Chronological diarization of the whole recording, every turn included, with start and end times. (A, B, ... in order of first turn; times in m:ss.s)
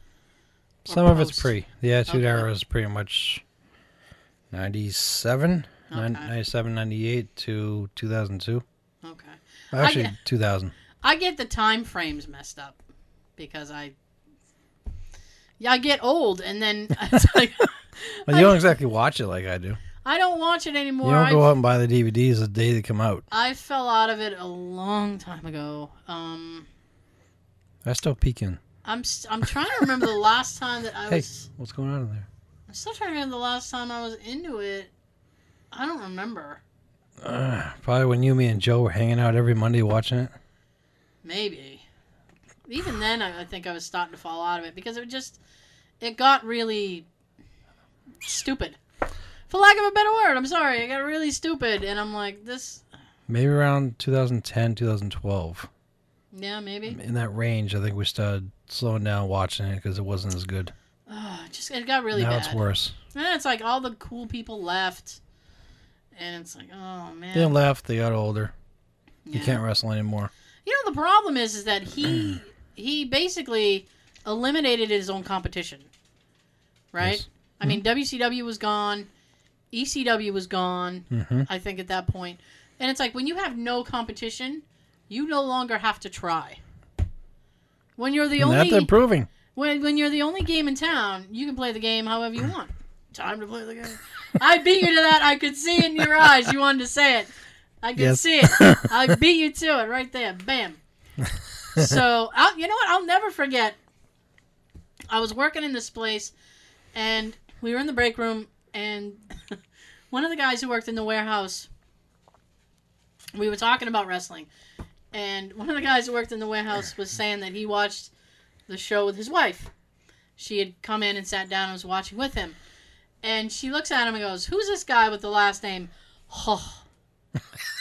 0:00.9-0:03.4 A
0:00.9-0:01.5 B
0:02.1-0:02.5 B
0:04.5-0:08.6 A
0:05.9-0:06.3 B
0:09.0-0:10.2 B
0:09.7-0:10.7 A
0:11.0-0:12.8 B
0:13.4-0:14.0 B
0:15.6-0:18.6 B
0:18.3-0:19.8 A
0:20.0-0:21.5 B
0:21.0-0:23.3 A
0:23.3-0:26.7 B
0:27.8-0:28.6 A
0:28.8-0:31.5 B
0:31.1-0:32.3 A
0:32.7-0:34.9 B
0:35.7-0:36.6 B
0:37.2-0:40.3 A
0:41.2-0:41.8 B
0:42.7-0:45.4 B
0:46.0-0:47.1 B
0:48.2-0:48.8 B
0:49.5-0:52.8 B
0:53.3-0:55.7 A
0:56.3-0:57.0 B
0:56.9-1:00.7 A
1:01.1-1:02.6 B
1:02.1-1:03.0 A
1:03.1-1:05.2 B
1:06.2-1:07.6 B
1:07.3-1:08.5 A
1:09.3-1:09.6 B
1:09.3-1:10.3 A
1:10.6-1:15.9 B
1:16.9-1:19.1 B
1:17.0-1:17.8 A
1:19.7-1:26.6 B
1:21.1-1:21.5 A
1:28.0-1:28.9 B
1:28.4-1:29.3 A
1:29.5-1:37.3 B
1:37.8-1:40.8 B
1:38.0-1:39.2 A
1:41.8-1:43.8 B
1:45.1-1:46.3 B
1:46.9-1:49.6 B
1:50.1-1:51.7 B
1:53.4-1:54.5 B
1:55.1-1:58.1 B
1:58.7-1:59.7 B
2:00.4-2:02.6 B
2:03.2-2:06.8 B